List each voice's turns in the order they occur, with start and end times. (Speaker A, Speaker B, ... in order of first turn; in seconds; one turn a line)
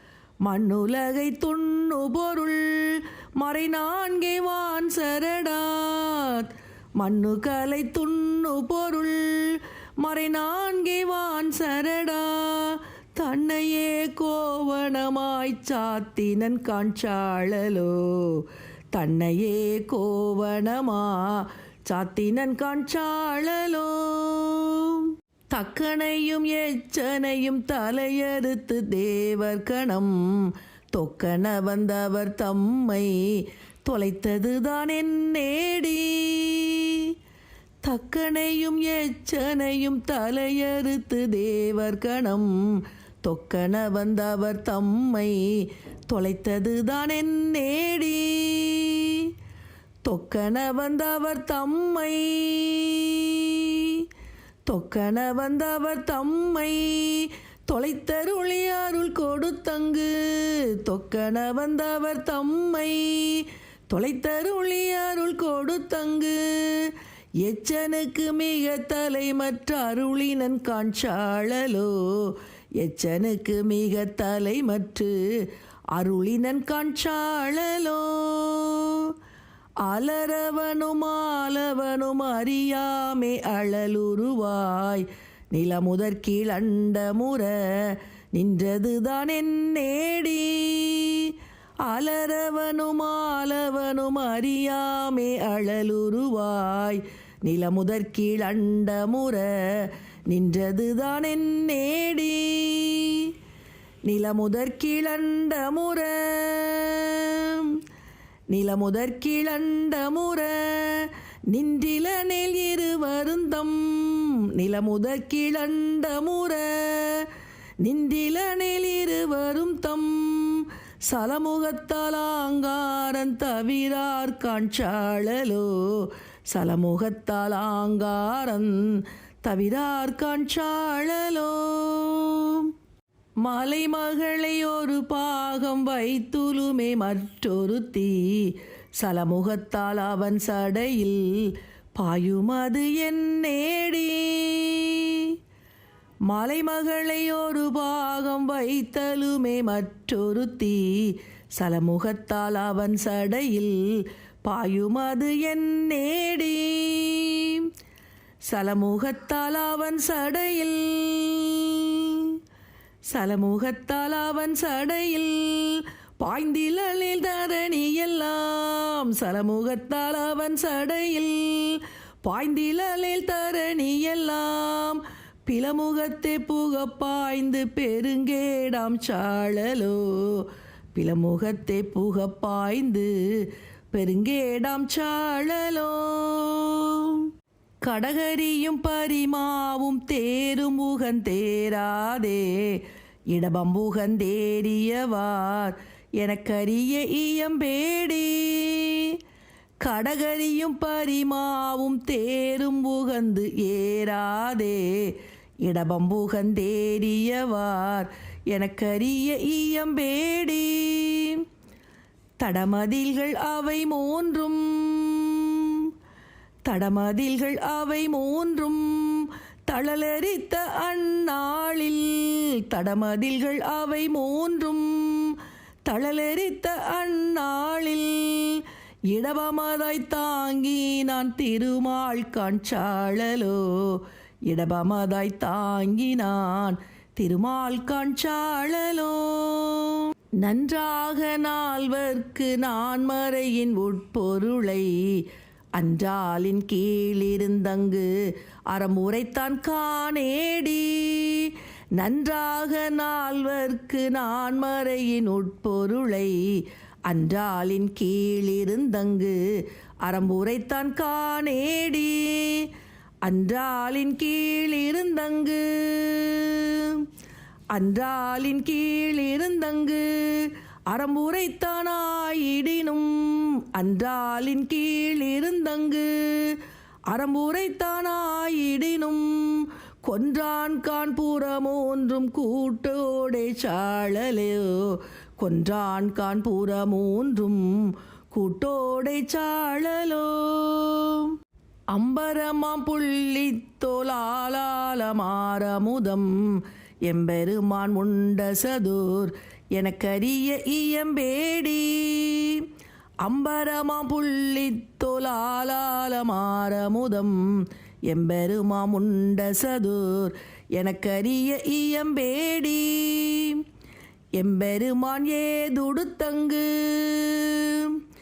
Speaker A: 0.4-37.1
Speaker A: 37.8-49.3
Speaker A: 50.0-54.1
Speaker A: 54.7-75.1
Speaker A: 75.9-79.1
Speaker A: 79.8-91.3
Speaker A: 91.8-103.3
Speaker A: 104.0-107.8
Speaker A: 108.5-117.3
Speaker A: 117.8-132.7
Speaker A: 133.4-145.3
Speaker A: 146.3-157.7
Speaker A: 158.5-162.4
Speaker A: 163.1-187.3
Speaker A: 187.8-199.2
Speaker A: 199.8-211.4
Speaker A: 212.4-215.9
Speaker A: 216.7-248.1
Speaker A: 248.7-259.4
Speaker A: 260.0-262.7
Speaker A: 263.2-267.1
Speaker A: 267.7-276.6
Speaker A: 277.1-291.3
Speaker A: 291.9-302.7
Speaker A: 303.2-307.4
Speaker A: 308.1-313.6
Speaker A: 314.4-318.0